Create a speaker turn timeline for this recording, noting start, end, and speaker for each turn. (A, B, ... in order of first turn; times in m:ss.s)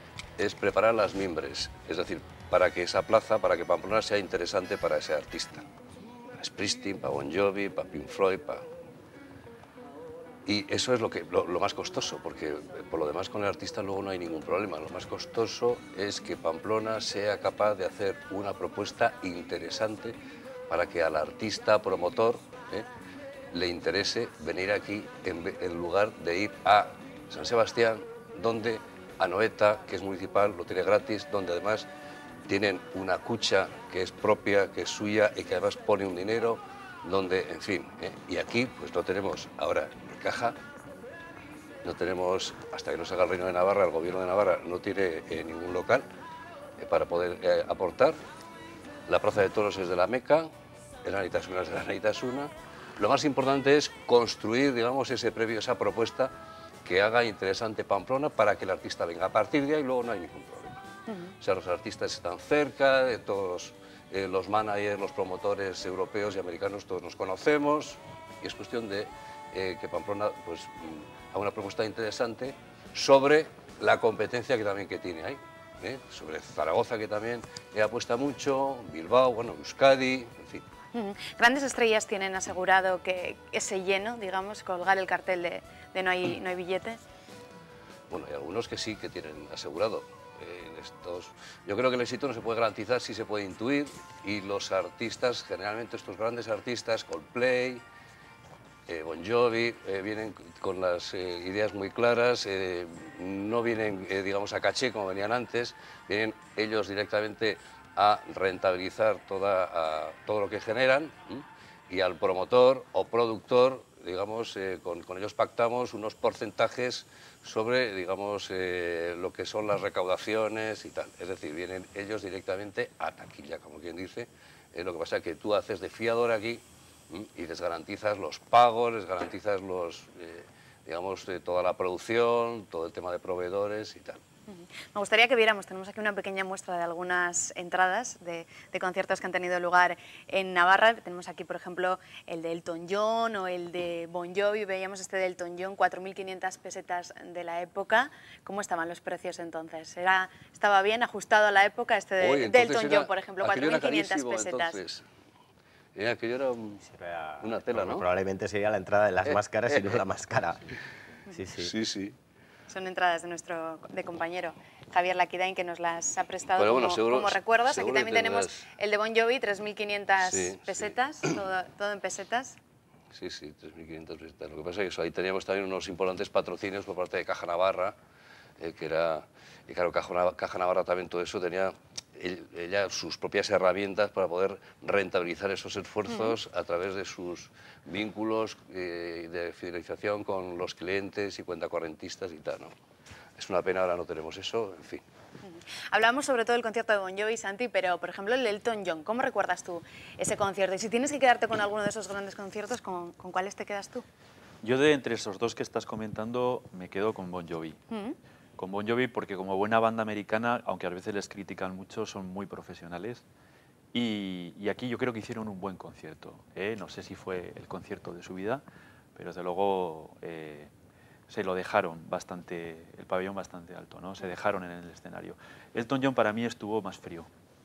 0:00.4-0:05.7 A
0:06.4-0:08.7 A
0:10.5-0:20.2 A
0:20.7-0:22.9 A
0:23.5-0:31.9 A
0:32.5-0:40.6 A
0:41.8-0:46.1 A
0:46.8-0:48.2 A
0:49.1-0:50.5 A
0:51.0-0:56.3 A
0:56.8-1:00.9 A
1:01.1-1:01.3 B
1:01.4-1:20.7 A
1:21.0-1:27.0 B
1:28.1-1:37.8 A
1:38.9-2:14.2 A
2:14.5-2:34.8 B
2:32.2-2:35.0 A
2:36.0-2:36.8 A
2:36.9-2:40.6 C
2:37.4-2:38.0 A
2:39.3-2:39.9 A
2:41.3-2:41.7 C
2:41.6-2:42.2 A
2:42.7-2:52.6 B
2:46.6-2:48.7 A
2:50.2-2:51.3 A
2:53.1-2:58.0 A
2:58.6-3:12.7 A
3:13.4-3:15.0 A
3:15.5-3:24.0 B
3:24.6-3:27.8 D
3:27.9-3:28.2 B
3:28.6-3:33.2 D
3:33.9-3:38.6 D
3:39.2-3:40.7 D
3:41.3-3:47.3 D